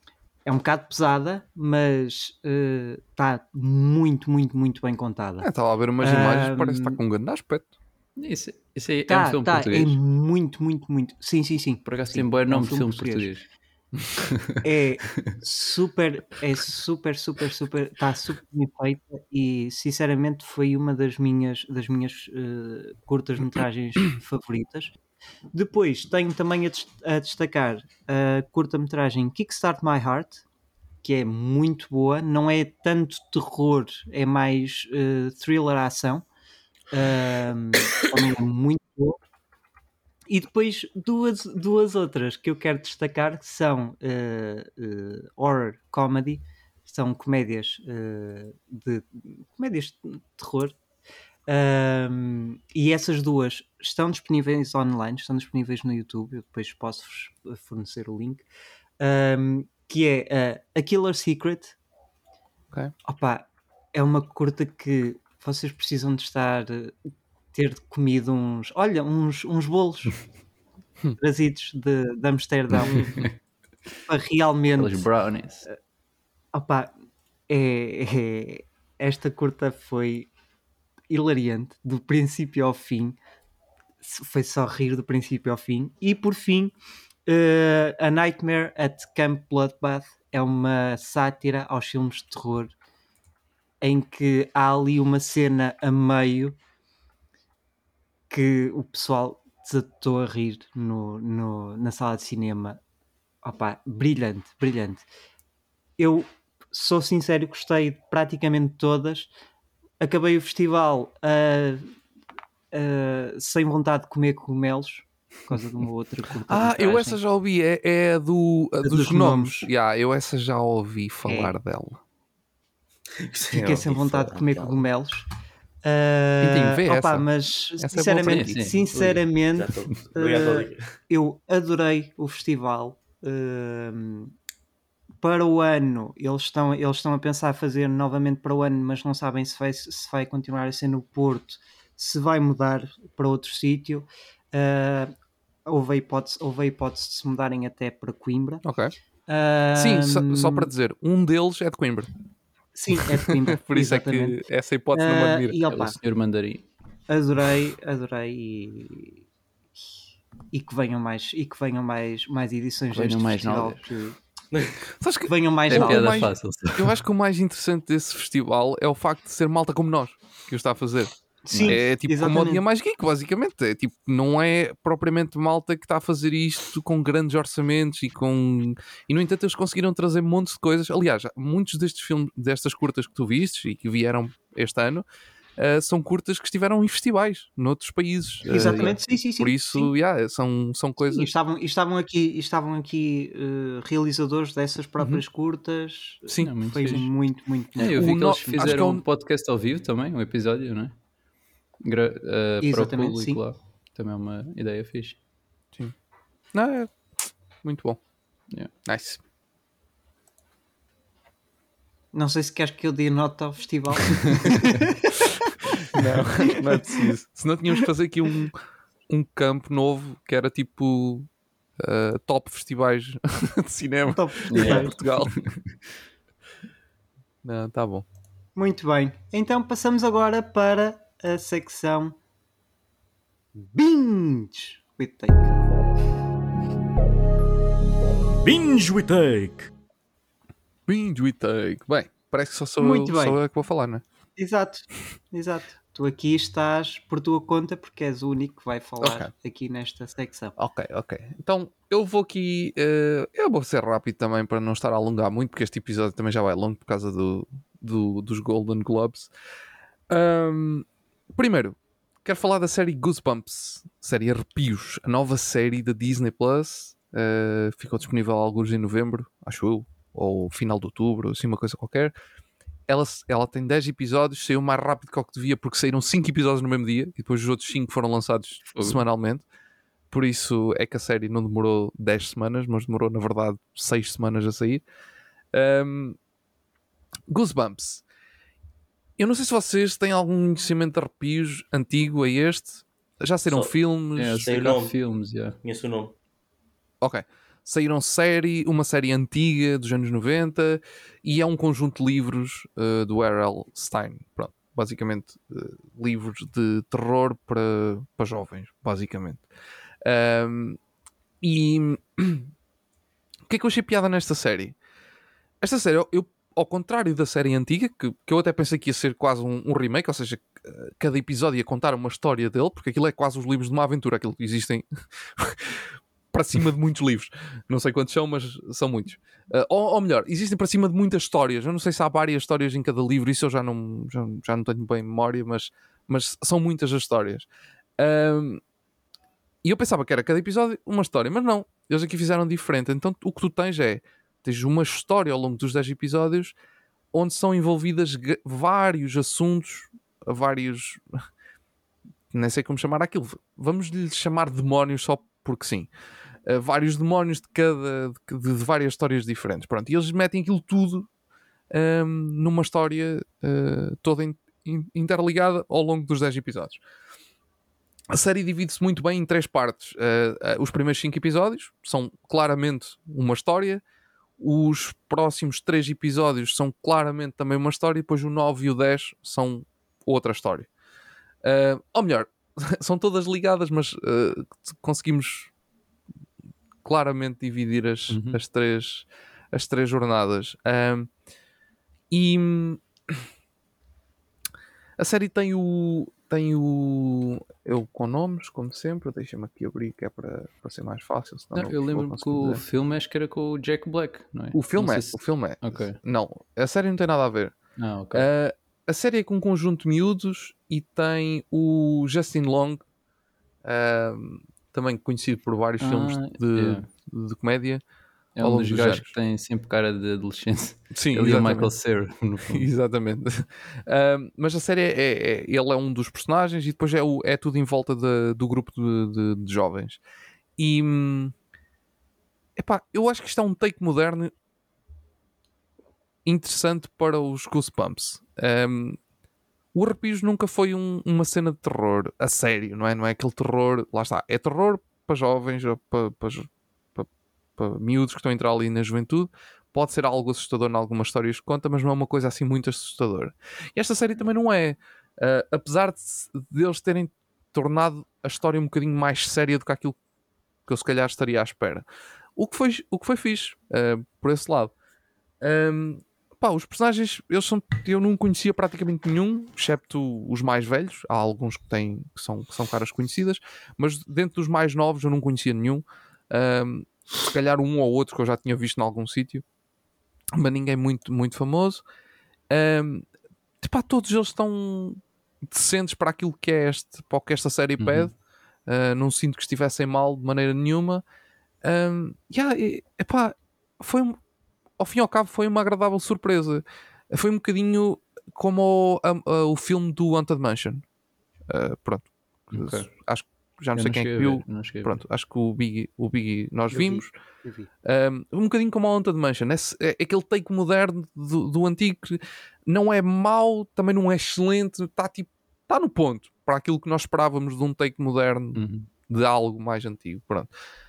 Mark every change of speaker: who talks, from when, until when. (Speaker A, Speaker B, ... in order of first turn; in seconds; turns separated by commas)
Speaker A: 0.5-5.5, Speaker B: 5.4-7.7, Speaker A: 6.0-7.0, Speaker C: 8.2-10.0, Speaker A: 9.1-13.3, Speaker C: 11.9-13.4, Speaker C: 14.1-14.6, Speaker A: 14.6-24.9, Speaker A: 25.5-30.4, Speaker A: 31.0-36.2, Speaker A: 36.9-39.2, Speaker A: 40.3-50.8, Speaker A: 51.5-58.4, Speaker A: 59.0-61.8, Speaker A: 63.0-70.2, Speaker A: 71.2-73.1, Speaker C: 73.1-73.3, Speaker A: 74.1-75.1, Speaker C: 74.8-75.6, Speaker A: 76.5-76.9, Speaker A: 77.5-80.3, Speaker A: 81.1-83.2, Speaker A: 84.0-86.7, Speaker A: 87.2-92.7, Speaker A: 93.8-96.5, Speaker A: 98.3-102.8, Speaker A: 103.4-105.0, Speaker A: 106.0-109.3, Speaker A: 110.0-111.9, Speaker A: 112.7-117.2, Speaker B: 116.5-122.0, Speaker A: 118.8-119.7, Speaker A: 121.2-121.5, Speaker D: 123.2-124.8, Speaker A: 123.5-125.2, Speaker A: 125.8-134.3, Speaker B: 126.4-128.7, Speaker C: 128.2-129.2, Speaker D: 129.5-130.8, Speaker A: 135.2-145.1, Speaker A: 145.7-148.6, Speaker B: 148.6-148.9, Speaker A: 149.3-150.7, Speaker B: 149.7-152.1, Speaker A: 152.7-154.4, Speaker B: 153.3-155.6, Speaker A: 154.9-155.9, Speaker C: 155.7-156.6, Speaker A: 157.1-159.2, Speaker A: 160.5-164.2, Speaker C: 162.9-163.8, Speaker D: 164.5-164.8, Speaker B: 165.0-185.0, Speaker A: 165.3-166.3, Speaker C: 165.7-166.9, Speaker A: 171.5-172.6, Speaker C: 171.5-171.8, Speaker B: 185.6-191.3, Speaker C: 188.4-188.9, Speaker A: 188.4-189.9, Speaker A: 191.0-198.0, Speaker B: 196.3-196.5, Speaker C: 196.4-197.1, Speaker C: 197.8-200.9, Speaker B: 197.8-199.0, Speaker C: 201.8-205.2, Speaker A: 202.6-203.4, Speaker B: 206.5-208.0, Speaker B: 208.8-209.2, Speaker A: 212.1-215.3, Speaker B: 215.9-218.6, Speaker A: 216.6-217.0, Speaker B: 219.1-225.4, Speaker A: 224.1-224.9, Speaker C: 224.5-225.8, Speaker B: 227.4-228.1, Speaker A: 228.6-232.2, Speaker A: 233.5-235.6, Speaker D: 238.4-239.7, Speaker B: 240.9-244.0, Speaker A: 242.8-243.4, Speaker A: 244.3-250.5, Speaker B: 249.0-249.3, Speaker B: 250.6-259.3, Speaker B: 260.1-272.1, Speaker B: 272.9-279.4, Speaker C: 278.7-279.0, Speaker B: 280.1-284.8, Speaker B: 285.5-286.2, Speaker B: 287.3-288.0, Speaker B: 289.2-294.5, Speaker C: 294.1-295.6, Speaker D: 294.4-294.9, Speaker D: 295.6-296.1, Speaker B: 297.0-309.4, Speaker B: 310.0-310.8, Speaker B: 311.4-312.5, Speaker B: 313.5-314.7, Speaker B: 315.6-337.5, Speaker B: 338.0-338.6, Speaker B: 339.6-346.5, Speaker B: 347.1-351.2, Speaker B: 352.3-355.9, Speaker B: 356.4-361.1, Speaker B: 361.7-366.8, Speaker B: 368.1-373.8, Speaker B: 374.4-380.7, Speaker B: 381.4-385.5, Speaker B: 386.8-391.1, Speaker C: 388.1-388.4, Speaker B: 392.1-393.2, Speaker B: 395.0-402.6, Speaker C: 401.5-406.0, Speaker B: 404.5-407.5, Speaker C: 407.8-408.3, Speaker B: 408.1-412.8, Speaker B: 413.6-417.8, Speaker C: 415.8-416.9, Speaker C: 418.4-422.6, Speaker B: 418.4-419.1, Speaker B: 420.9-421.7, Speaker B: 422.5-430.0, Speaker B: 430.6-431.3, Speaker B: 432.6-434.3, Speaker B: 436.2-439.0, Speaker B: 439.7-460.0, Speaker B: 460.7-461.8, Speaker B: 462.4-464.7, Speaker B: 465.4-479.4, Speaker B: 480.3-481.8, Speaker B: 482.5-483.1, Speaker B: 483.6-488.1, Speaker C: 487.8-488.1, Speaker B: 488.7-491.0, Speaker B: 491.6-494.2, Speaker B: 494.8-500.8, Speaker B: 501.5-507.1, Speaker C: 502.5-502.9, Speaker C: 503.7-505.0, Speaker A: 506.7-507.7, Speaker B: 507.8-520.5, Speaker C: 518.5-518.9